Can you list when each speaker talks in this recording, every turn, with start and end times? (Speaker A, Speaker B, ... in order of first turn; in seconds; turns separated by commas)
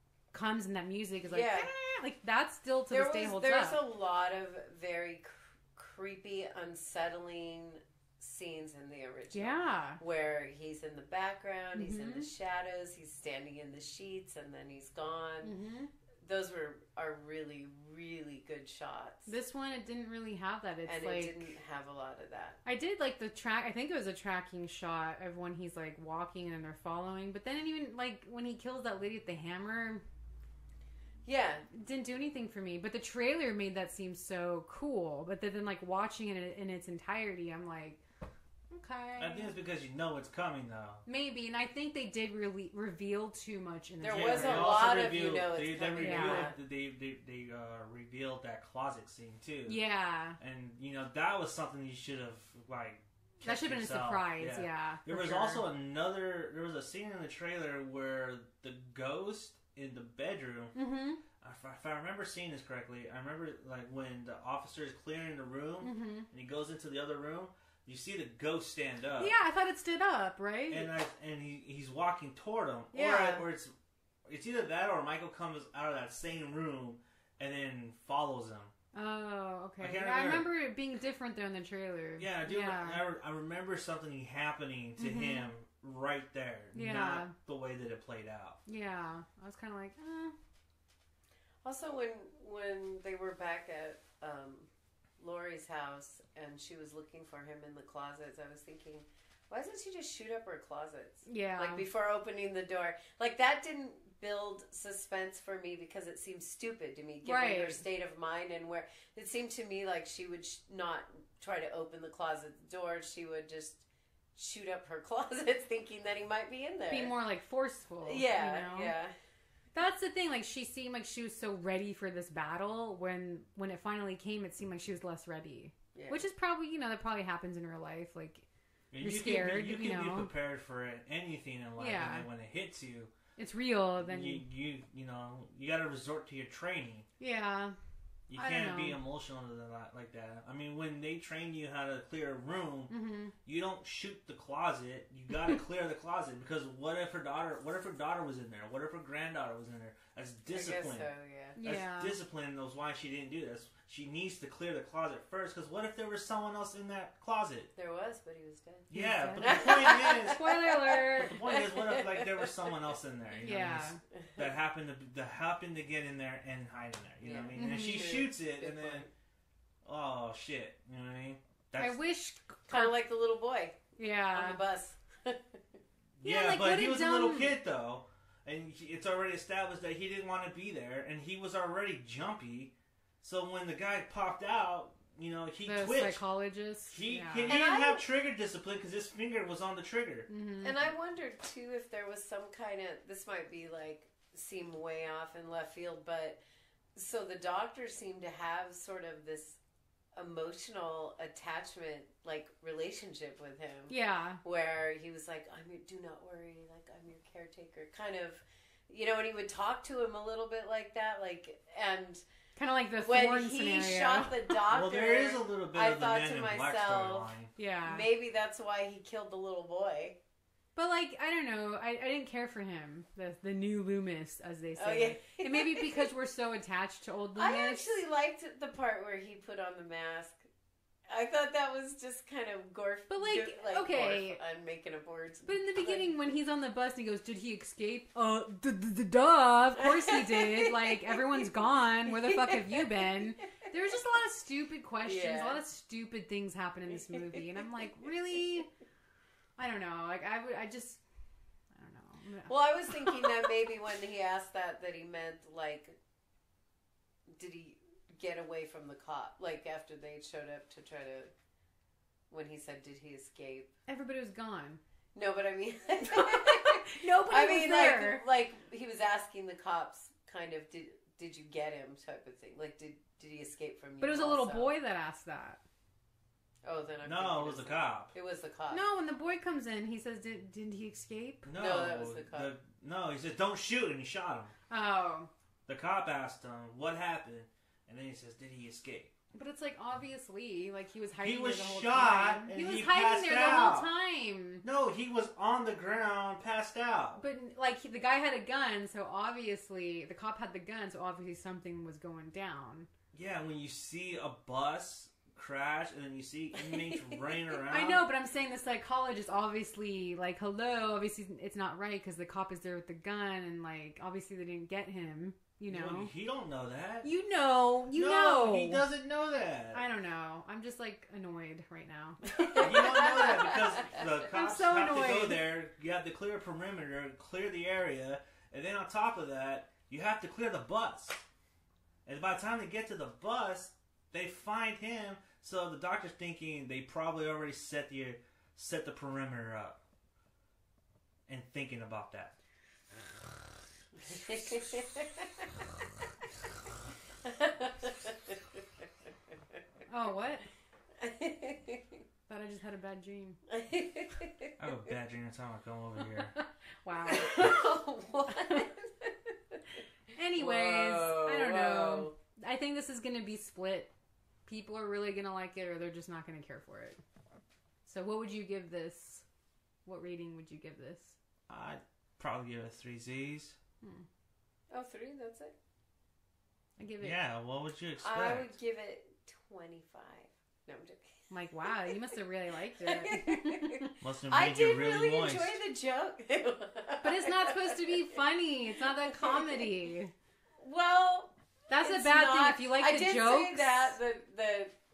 Speaker A: 0.3-3.8, Speaker B: 1.3-1.7, Speaker B: 2.9-15.6, Speaker A: 9.3-10.0, Speaker A: 11.8-12.3, Speaker A: 15.4-15.9, Speaker B: 16.2-19.3, Speaker A: 19.3-21.5, Speaker B: 20.9-22.6, Speaker A: 22.6-30.0, Speaker B: 31.2-31.7, Speaker A: 31.7-38.0, Speaker A: 38.7-39.5, Speaker C: 39.2-41.0, Speaker A: 41.1-44.8, Speaker B: 44.0-46.6, Speaker C: 44.1-49.8, Speaker A: 46.0-46.5, Speaker A: 49.7-50.4, Speaker C: 50.4-60.8, Speaker A: 53.4-55.6, Speaker A: 60.8-61.2, Speaker C: 61.4-69.3, Speaker A: 65.8-66.3, Speaker A: 69.2-70.9, Speaker C: 70.7-73.7, Speaker A: 72.9-73.5, Speaker C: 74.3-78.7, Speaker A: 78.9-83.0, Speaker C: 79.8-80.5, Speaker C: 82.2-88.6, Speaker A: 85.0-85.5, Speaker A: 86.7-87.3, Speaker A: 88.7-90.3, Speaker B: 91.6-113.8, Speaker A: 101.3-101.8, Speaker A: 107.2-107.8, Speaker B: 114.4-117.2, Speaker A: 116.9-119.0, Speaker B: 118.0-119.1, Speaker A: 119.8-128.5, Speaker B: 126.0-126.2, Speaker C: 128.9-133.1, Speaker A: 129.0-130.3, Speaker A: 131.8-132.3, Speaker A: 133.4-134.5, Speaker C: 134.0-137.1, Speaker A: 137.2-137.8, Speaker C: 138.3-142.9, Speaker A: 138.4-139.0, Speaker A: 142.9-143.3, Speaker C: 143.4-151.1, Speaker B: 150.5-151.6, Speaker A: 151.6-152.2, Speaker C: 151.6-157.7, Speaker B: 157.8-162.8, Speaker C: 158.9-160.5, Speaker A: 158.9-161.3, Speaker C: 161.2-169.1, Speaker A: 163.4-164.0, Speaker B: 167.2-169.1, Speaker A: 167.6-168.2, Speaker C: 169.8-172.0, Speaker A: 171.8-172.9, Speaker B: 172.7-175.6, Speaker A: 174.0-174.6, Speaker C: 176.2-186.2, Speaker A: 176.2-177.6, Speaker A: 185.7-187.6, Speaker C: 186.9-190.3, Speaker B: 187.5-188.1, Speaker A: 190.3-190.8, Speaker B: 190.6-196.4, Speaker B: 196.9-199.6, Speaker B: 200.2-212.2, Speaker A: 203.9-204.4, Speaker A: 212.6-214.6, Speaker B: 213.0-217.3, Speaker C: 214.7-217.5, Speaker A: 217.6-218.1, Speaker B: 217.8-220.2, Speaker A: 220.8-227.9, Speaker B: 224.8-226.1, Speaker B: 227.3-230.5, Speaker B: 231.1-236.1, Speaker A: 233.1-234.4, Speaker A: 235.5-248.7, Speaker B: 240.1-243.3, Speaker B: 245.0-245.6, Speaker B: 246.9-247.6, Speaker A: 249.6-251.0, Speaker A: 251.7-253.2, Speaker B: 252.5-256.0, Speaker B: 257.3-261.3, Speaker B: 262.3-263.7, Speaker A: 263.9-264.8, Speaker B: 265.1-274.7, Speaker A: 266.1-268.2, Speaker A: 274.0-275.6, Speaker B: 276.6-278.9, Speaker C: 277.0-278.1, Speaker A: 278.7-281.5, Speaker C: 281.4-284.5, Speaker B: 281.6-282.5, Speaker A: 284.7-285.3, Speaker C: 285.7-289.1, Speaker A: 289.3-294.6, Speaker C: 291.2-293.9, Speaker C: 294.6-297.2, Speaker A: 297.2-302.9, Speaker C: 303.1-308.1, Speaker A: 306.6-316.1, Speaker C: 315.7-317.1, Speaker A: 317.0-318.9, Speaker C: 317.9-319.8, Speaker A: 319.7-323.3, Speaker B: 322.3-324.2, Speaker C: 322.6-331.2, Speaker A: 324.2-325.4, Speaker C: 332.1-339.8, Speaker C: 341.3-342.4, Speaker B: 344.0-345.4, Speaker B: 347.2-348.4, Speaker A: 349.9-350.5, Speaker B: 351.0-352.0, Speaker A: 352.3-353.4, Speaker B: 353.5-354.5, Speaker C: 354.6-356.4, Speaker A: 356.4-357.6, Speaker B: 357.1-359.6, Speaker A: 358.3-358.7, Speaker A: 360.2-363.9, Speaker B: 360.4-362.1, Speaker A: 364.5-367.0, Speaker A: 367.9-369.3, Speaker A: 369.9-371.2, Speaker C: 371.5-373.6, Speaker A: 373.8-374.1, Speaker B: 374.7-375.5, Speaker A: 376.8-377.2, Speaker C: 377.0-378.5, Speaker B: 378.0-382.1, Speaker A: 381.3-383.9, Speaker B: 382.8-388.1, Speaker C: 384.0-385.6, Speaker A: 387.0-390.1, Speaker B: 388.8-389.7, Speaker B: 390.6-394.7, Speaker A: 391.7-394.0